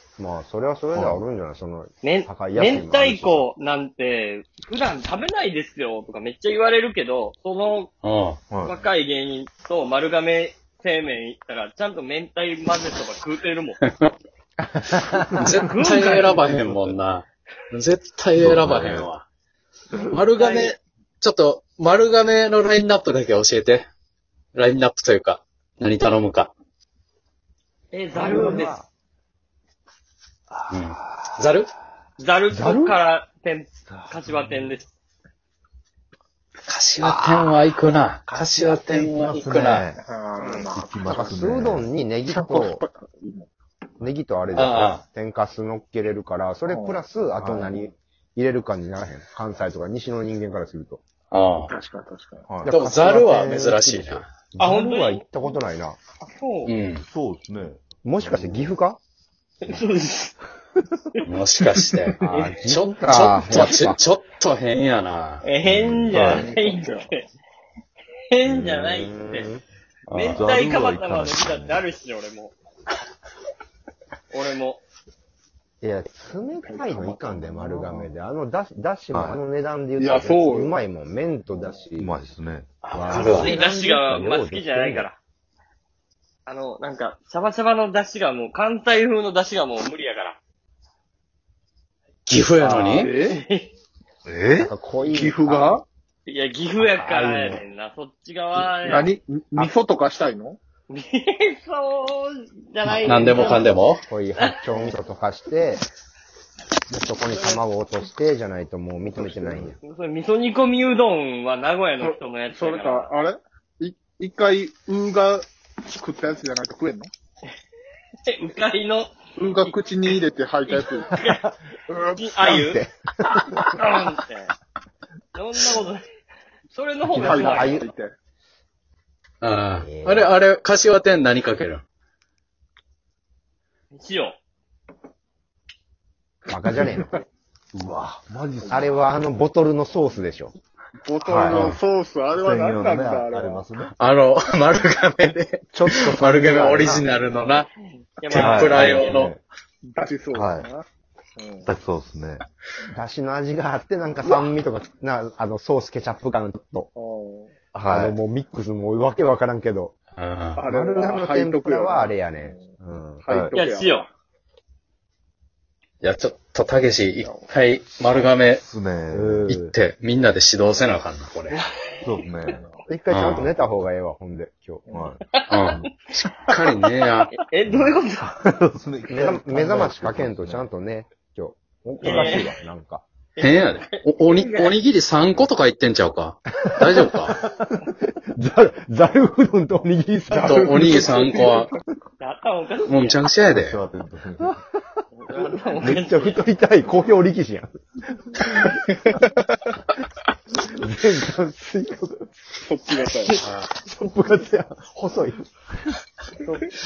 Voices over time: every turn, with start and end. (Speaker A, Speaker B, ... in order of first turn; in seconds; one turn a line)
Speaker A: 0.2-3.5
Speaker B: 0.9-1.2
Speaker C: 2.0-7.9
Speaker D: 8.0-8.4
Speaker B: 8.5-8.8
Speaker C: 8.6-13.8
Speaker A: 14.6-15.6
Speaker D: 15.4-19.2
Speaker C: 15.4-16.4
Speaker B: 18.4-19.1
Speaker D: 20.1-23.9
Speaker C: 20.4-20.8
Speaker D: 24.5-26.5
Speaker C: 27.9-28.8
Speaker A: 28.1-28.8
Speaker B: 28.4-28.7
Speaker D: 30.7-31.7
Speaker C: 32.2-34.9
Speaker A: 32.5-33.0
Speaker B: 34.0-34.7
Speaker D: 36.7-39.9
Speaker B: 38.3-40.0
Speaker E: 40.1-40.9
Speaker A: 40.5-42.8
Speaker B: 40.7-41.9
Speaker E: 42.3-43.5
Speaker A: 44.0-51.0
Speaker D: 44.5-45.0
Speaker E: 46.7-47.8
Speaker D: 51.3-51.7
Speaker E: 51.7-52.5
Speaker B: 52.5-52.8
Speaker A: 52.6-56.0
Speaker D: 52.7-54.2
Speaker C: 54.6-55.3
Speaker C: 56.2-56.7
Speaker D: 56.6-57.0
Speaker B: 57.0-58.7
Speaker A: 58.0-59.0
Speaker C: 59.6-60.4
Speaker D: 61.2-65.5
Speaker A: 62.2-64.0
Speaker C: 62.3-62.6
Speaker C: 65.4-67.3
Speaker B: 65.7-66.5
Speaker E: 66.2-67.1
Speaker C: 68.3-69.5
Speaker A: 68.4-69.6
Speaker D: 70.1-70.5
Speaker C: 70.1-72.6
Speaker B: 70.3-71.9
Speaker C: 74.3-74.8
Speaker A: 75.8-82.2
Speaker E: 76.6-78.1
Speaker B: 79.1-79.4
Speaker E: 80.0-80.8
Speaker B: 82.0-82.8
Speaker D: 82.8-83.6
Speaker A: 82.9-85.1
Speaker C: 83.2-85.2
Speaker C: 86.5-90.4
Speaker D: 92.3-93.1
Speaker E: 92.6-93.4
Speaker C: 93.2-93.7
Speaker B: 94.3-94.7
Speaker A: 94.6-95.8
Speaker E: 95.0-95.8
Speaker C: 96.3-99.1
Speaker A: 96.8-97.6
Speaker E: 98.8-100.6
Speaker C: 100.9-103.8
Speaker D: 102.8-104.0
Speaker A: 103.3-103.6
Speaker A: 104.1-105.8
Speaker C: 104.4-104.9
Speaker A: 106.9-109.8
Speaker C: 107.3-107.6
Speaker E: 109.1-109.7
Speaker C: 109.8-113.1
Speaker E: 112.0-117.1
Speaker C: 118.3-119.8
Speaker E: 119.4-121.1
Speaker C: 120.7-121.5
Speaker A: 121.2-121.5
Speaker E: 121.9-122.3
Speaker C: 122.2-122.8
Speaker A: 122.4-123.8
Speaker C: 123.7-124.5
Speaker C: 125.3-126.0
Speaker C: 126.7-127.8
Speaker A: 127.1-127.9
Speaker E: 127.2-128.1
Speaker D: 129.4-131.8
Speaker A: 129.8-130.3
Speaker C: 133.9-134.4
Speaker A: 136.5-137.2
Speaker E: 136.8-137.1
Speaker B: 137.8-139.0
Speaker A: 138.6-140.6
Speaker E: 141.0-143.7
Speaker B: 141.2-141.8
Speaker B: 142.3-143.9
Speaker D: 144.0-147.7
Speaker A: 145.7-147.3
Speaker C: 148.2-149.1
Speaker D: 148.3-149.3
Speaker B: 148.3-149.4
Speaker E: 149.8-150.8
Speaker B: 150.3-150.7
Speaker E: 151.4-151.7
Speaker B: 151.7-152.4
Speaker A: 152.9-156.9
Speaker E: 156.9-157.6
Speaker B: 157.8-158.2
Speaker A: 157.8-159.9
Speaker D: 160.2-160.6
Speaker E: 160.6-164.1
Speaker A: 160.7-163.2
Speaker B: 163.3-163.6
Speaker C: 163.5-164.1
Speaker D: 166.0-168.6
Speaker E: 167.2-167.5
Speaker B: 168.6-169.4
Speaker A: 169.1-169.7
Speaker D: 169.4-171.6
Speaker C: 171.5-171.8
Speaker B: 172.0-172.6
Speaker E: 172.4-172.8
Speaker A: 172.9-174.9
Speaker D: 173.1-173.5
Speaker E: 174.9-175.2
Speaker B: 174.9-175.2
Speaker D: 175.5-177.3
Speaker C: 177.3-178.4
Speaker B: 177.7-180.7
Speaker A: 179.1-183.0
Speaker C: 182.0-182.5
Speaker E: 182.1-182.4
Speaker C: 183.4-184.8
Speaker D: 183.4-187.4
Speaker A: 186.9-191.1
Speaker D: 190.4-191.7
Speaker E: 190.5-191.4
Speaker C: 192.2-193.2
Speaker D: 192.9-193.8
Speaker B: 193.5-194.6
Speaker C: 195.1-196.4
Speaker A: 195.4-198.8
Speaker A: 200.7-202.3
Speaker E: 202.6-203.4
Speaker C: 202.9-203.4
Speaker D: 203.4-203.7
Speaker A: 203.8-205.4